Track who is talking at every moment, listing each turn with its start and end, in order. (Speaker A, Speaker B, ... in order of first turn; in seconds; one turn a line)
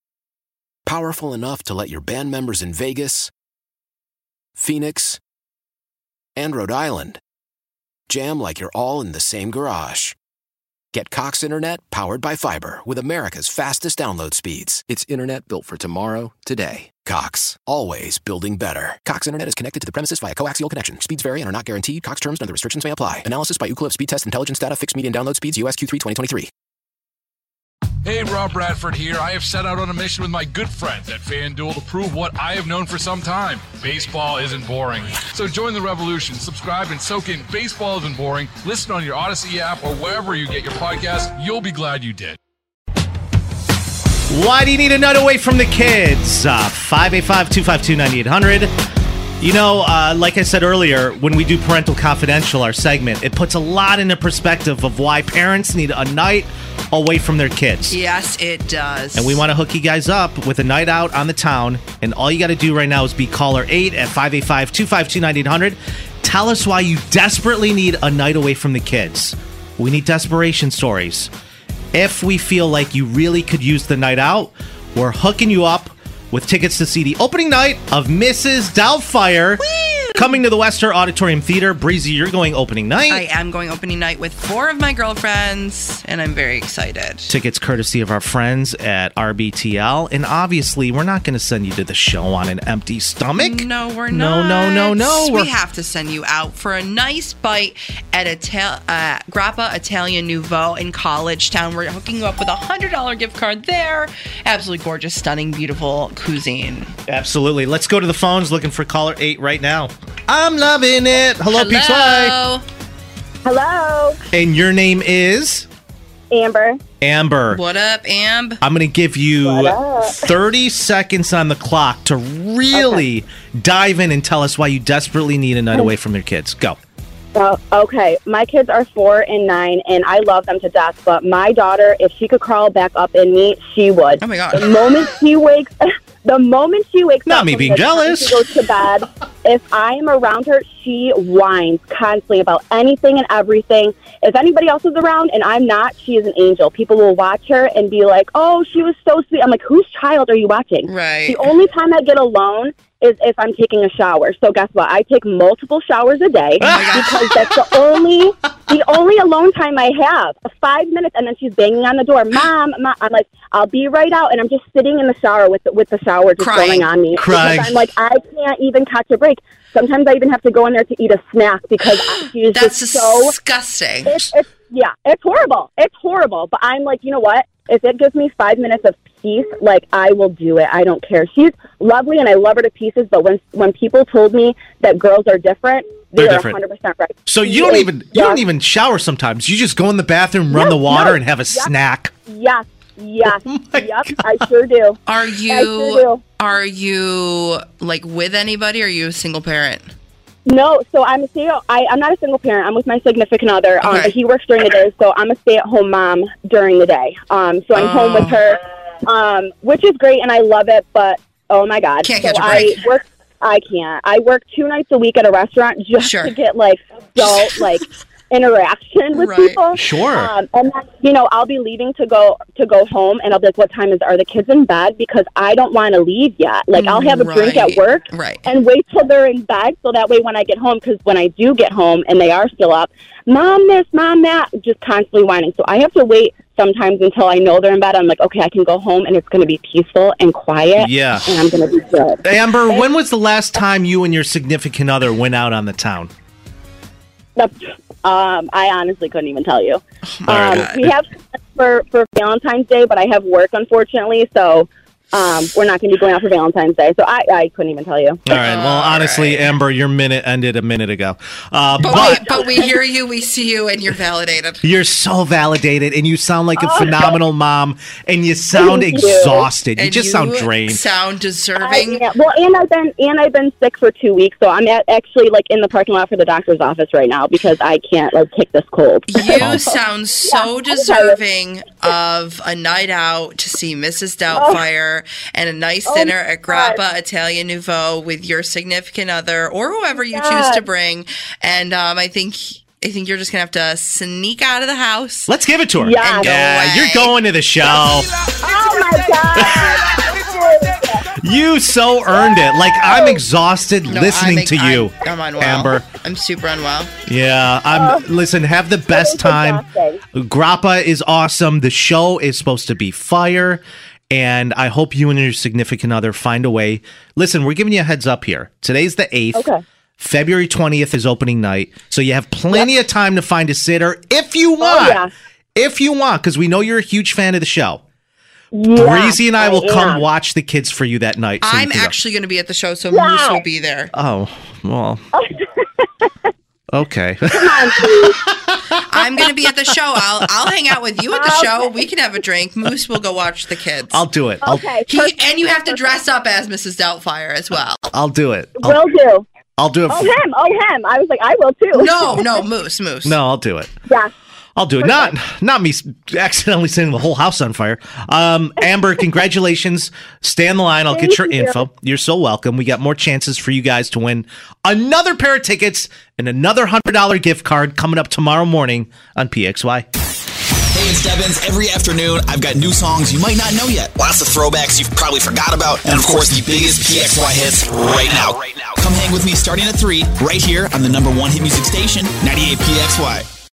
Speaker A: 0.8-3.3
Speaker A: 4.5-5.2
Speaker A: 6.3-7.2
Speaker A: 8.1-10.2
Speaker A: 10.9-26.5
Speaker B: 28.0-42.4
Speaker C: 44.3-48.7
Speaker C: 49.4-58.0
Speaker D: 57.9-59.4
Speaker C: 59.1-71.3
Speaker C: 71.9-83.2
Speaker D: 79.6-80.4
Speaker D: 83.1-87.3
Speaker C: 87.3-95.5
Speaker D: 93.3-106.9
Speaker C: 107.1-112.3
Speaker D: 111.5-112.6
Speaker E: 113.4-114.2
Speaker C: 114.3-115.7
Speaker E: 116.3-116.8
Speaker C: 117.0-117.6
Speaker D: 117.5-118.6
Speaker C: 118.6-126.8
Speaker E: 119.4-120.3
Speaker E: 122.7-123.0
Speaker E: 127.3-173.3
Speaker D: 134.2-134.8
Speaker C: 137.2-138.5
Speaker D: 150.8-151.5
Speaker D: 156.6-157.2
Speaker C: 156.6-156.9
Speaker D: 166.4-167.0
Speaker C: 167.1-167.8
Speaker D: 172.5-174.3
Speaker E: 174.1-188.4
Speaker C: 186.2-186.6
Speaker C: 187.2-192.1
Speaker E: 190.5-191.7
Speaker E: 192.3-196.2
Speaker C: 193.4-194.2
Speaker D: 195.1-199.9
Speaker E: 200.4-242.9
Speaker D: 203.8-204.1
Speaker D: 207.7-208.4
Speaker D: 212.0-212.8
Speaker D: 216.0-216.3
Speaker D: 219.1-219.6
Speaker C: 219.7-220.3
Speaker D: 226.7-228.5
Speaker C: 240.8-241.3
Speaker C: 242.2-246.1
Speaker E: 247.4-258.2
Speaker D: 250.0-250.8
Speaker C: 250.3-250.9
Speaker C: 258.2-262.4
Speaker D: 258.3-259.5
Speaker D: 261.8-264.6
Speaker E: 261.9-262.7
Speaker C: 264.6-270.8
Speaker E: 266.6-267.2
Speaker E: 268.5-269.5
Speaker D: 269.8-272.0
Speaker E: 271.6-281.2
Speaker D: 279.1-295.3
Speaker C: 279.4-279.6
Speaker E: 284.3-284.6
Speaker E: 285.9-286.8
Speaker E: 290.1-290.6
Speaker C: 295.3-298.1
Speaker E: 295.8-296.3
Speaker D: 296.0-297.2
Speaker E: 298.4-301.1
Speaker C: 299.4-299.7
Speaker C: 301.2-305.9
Speaker E: 302.1-303.2
Speaker D: 303.9-306.9
Speaker C: 307.1-309.6
Speaker E: 307.7-308.0
Speaker E: 308.9-310.0
Speaker C: 310.1-325.0
Speaker E: 319.3-319.6
Speaker E: 324.6-325.1
Speaker C: 325.6-327.8
Speaker E: 328.5-330.0
Speaker C: 328.7-331.9
Speaker D: 331.4-333.9
Speaker E: 332.9-333.4
Speaker C: 333.9-335.0
Speaker E: 335.1-336.1
Speaker C: 336.7-338.6
Speaker E: 337.3-338.2
Speaker D: 338.8-344.0
Speaker C: 339.1-339.4
Speaker E: 341.1-341.7
Speaker C: 343.9-344.7
Speaker E: 344.4-345.1
Speaker D: 344.9-347.9
Speaker C: 347.9-348.9
Speaker E: 348.6-349.2
Speaker C: 349.6-350.1
Speaker E: 349.9-352.4
Speaker D: 351.7-353.2
Speaker C: 353.0-353.7
Speaker C: 354.6-369.9
Speaker E: 354.8-355.1
Speaker E: 360.9-361.6
Speaker F: 370.7-383.3